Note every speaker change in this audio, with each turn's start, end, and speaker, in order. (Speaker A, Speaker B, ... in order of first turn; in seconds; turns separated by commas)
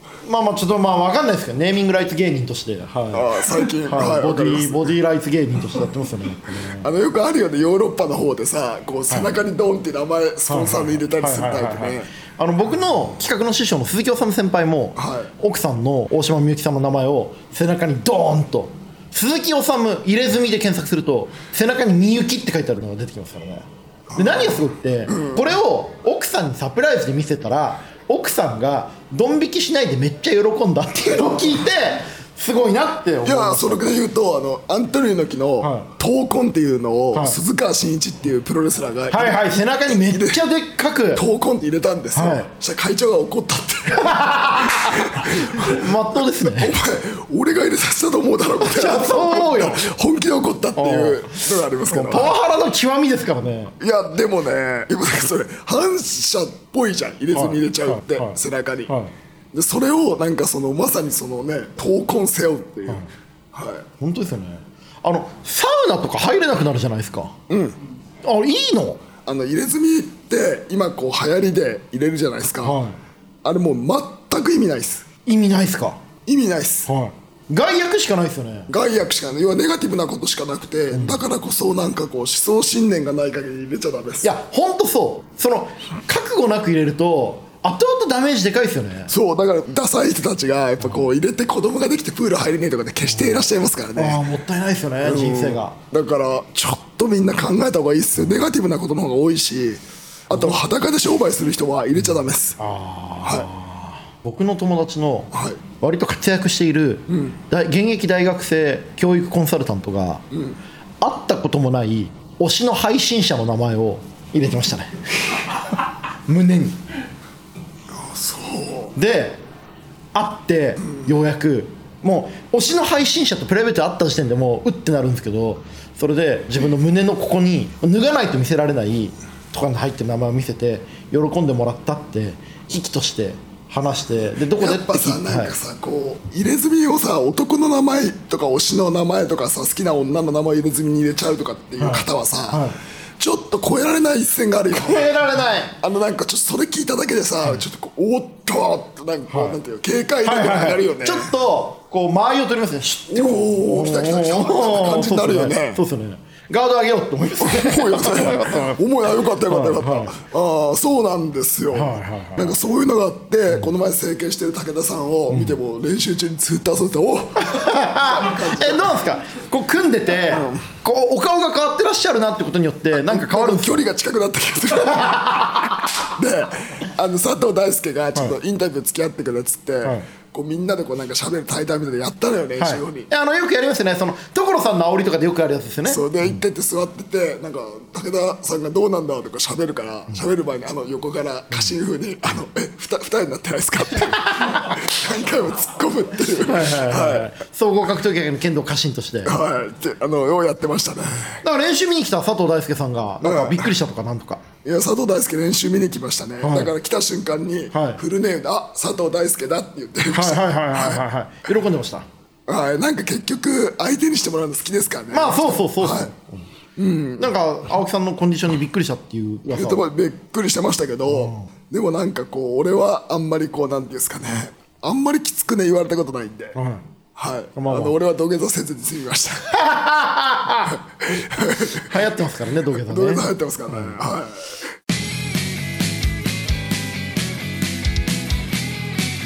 Speaker A: 0.2-6.9, Speaker B: 3.1-4.9, Speaker B: 6.7-12.1, Speaker A: 9.1-9.3, Speaker A: 10.5-33.9, Speaker B: 15.0-15.3, Speaker B: 24.1-25.5, Speaker B: 33.2-40.4, Speaker A: 35.6-35.9, Speaker A: 37.1-37.4, Speaker A: 39.1-41.2, Speaker B: 41.1-52.4, Speaker A: 42.1-42.5, Speaker A: 43.9-46.8, Speaker A: 48.6-49.8, Speaker A: 50.8-53.8, Speaker B: 53.8-58.9, Speaker A: 57.3-59.1, Speaker B: 59.5-63.9, Speaker A: 64.0-67.3, Speaker B: 67.5-67.8, Speaker A: 68.2-69.0, Speaker B: 69.2-72.8, Speaker A: 72.6-73.0, Speaker B: 73.4-75.1, Speaker A: 75.3-76.0, Speaker B: 76.3-76.9, Speaker A: 76.9-78.7, Speaker B: 78.7-84.3, Speaker A: 80.9-81.2, Speaker A: 84.2-89.1, Speaker B: 89.1-94.2, Speaker A: 93.0-95.8, Speaker B: 95.0-102.6, Speaker A: 100.3-100.6, Speaker A: 102.1-110.2, Speaker B: 103.2-103.5, Speaker B: 105.3-105.6, Speaker B: 107.1-107.3, Speaker B: 110.3-110.6, Speaker A: 111.0-115.0, Speaker A: 116.2-116.8, Speaker B: 117.9-118.9, Speaker A: 119.0-119.4, Speaker A: 120.1-135.5, Speaker B: 134.6-142.7, Speaker A: 141.8-142.8, Speaker B: 143.2-145.2, Speaker A: 144.7-145.8, Speaker B: 145.8-151.3, Speaker A: 149.3-149.6, Speaker A: 150.2-158.8, Speaker B: 153.1-155.8, Speaker B: 157.4-169.0, Speaker A: 159.5-160.2, Speaker A: 161.7-162.6, Speaker A: 165.3-165.6, Speaker A: 167.4-173.8, Speaker B: 170.3-170.6, Speaker B: 172.9-175.2, Speaker A: 174.8-175.8, Speaker B: 176.0-183.1, Speaker A: 179.8-180.1, Speaker A: 182.6-186.4, Speaker B: 185.9-197.3, Speaker A: 194.1-194.8, Speaker A: 196.3-199.3, Speaker B: 199.2-201.4, Speaker A: 201.4-204.4, Speaker B: 203.2-203.7, Speaker B: 204.6-211.0, Speaker A: 206.4-206.7, Speaker A: 207.7-208.0, Speaker A: 210.1-212.1, Speaker B: 212.5-216.1, Speaker A: 215.1-216.5, Speaker B: 216.8-217.3, Speaker A: 217.2-219.8, Speaker B: 219.4-226.6, Speaker A: 221.1-221.5, Speaker A: 226.6-226.8, Speaker B: 227.2-229.5, Speaker A: 227.6-227.9, Speaker A: 229.5-230.8, Speaker B: 230.7-232.0, Speaker A: 231.7-234.0, Speaker B: 232.8-234.7